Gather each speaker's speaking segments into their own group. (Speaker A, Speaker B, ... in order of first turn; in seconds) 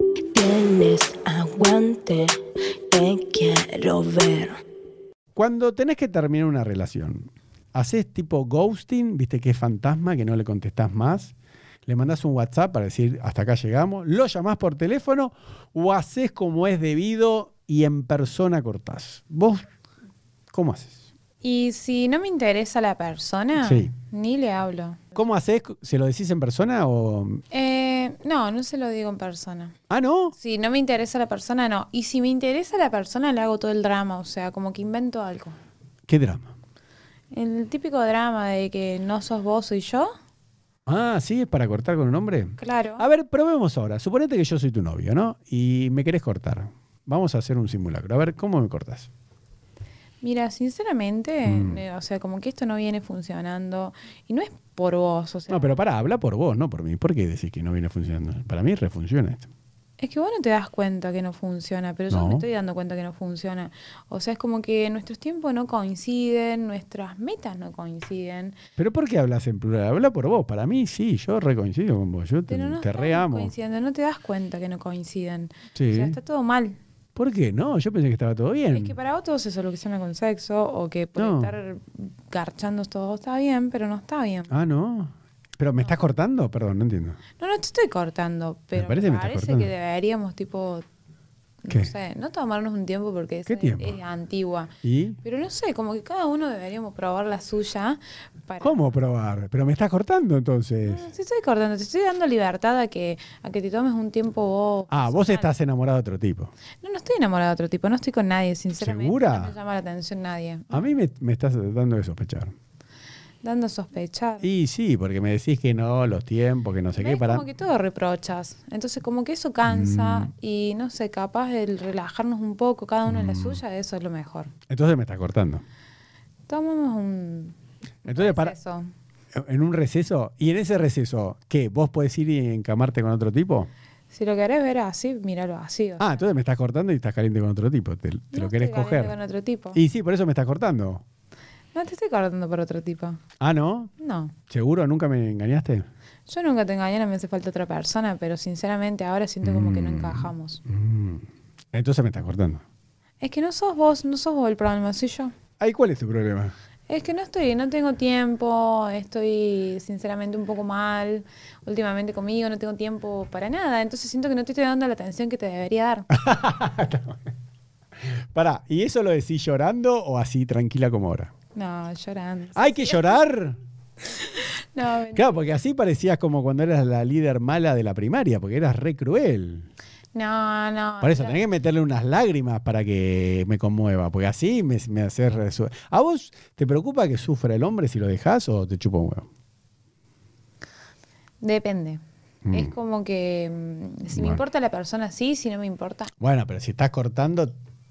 Speaker A: 0.3-2.3, 2.9-4.6
Speaker B: 5.4-11.3, 11.8-19.6, 20.5-20.9, 23.6-23.9, 25.1-27.4, 29.9-30.3, 36.1-36.5, 40.9-49.1, 51.5-51.8, 55.5-59.5, 62.1-62.5, 68.8-73.5, 75.7-76.2, 77.1-79.0, 81.2-81.5, 84.5-87.2, 88.7-89.7, 91.7-91.9, 93.5-94.0, 94.8-95.2, 98.6-101.0, 104.9-106.5, 108.8-109.5, 110.7-112.5, 114.4-117.5, 119.6-120.3, 123.0-123.6, 124.7-125.6, 128.1-128.6, 129.3-133.7, 136.0-139.2, 139.7-141.0, 143.4-143.9, 144.5-145.9, 149.4-152.6, 155.6-156.5, 166.1-167.2, 168.3-171.3, 172.6-173.6, 175.1-179.7, 181.0-189.3, 192.4-192.7, 194.1-194.4, 196.2-197.5
Speaker C: 21.4-25.0, 27.5-29.8, 30.3-35.6, 37.3-40.1, 42.6-43.0, 50.2-55.8, 60.0-68.6, 72.5-76.8, 78.7-84.6, 87.4-90.8, 91.6-98.8, 100.8-105.5, 106.8-110.9, 113.4-114.5, 117.0-124.5, 126.5-128.9, 134.1-136.2, 138.3-139.8, 141.7-143.2, 144.0-144.3, 146.3-150.6, 153.2-155.3, 156.9-166.1, 171.6-173.2, 174.5-175.5, 180.1-181.4, 191.4-196.1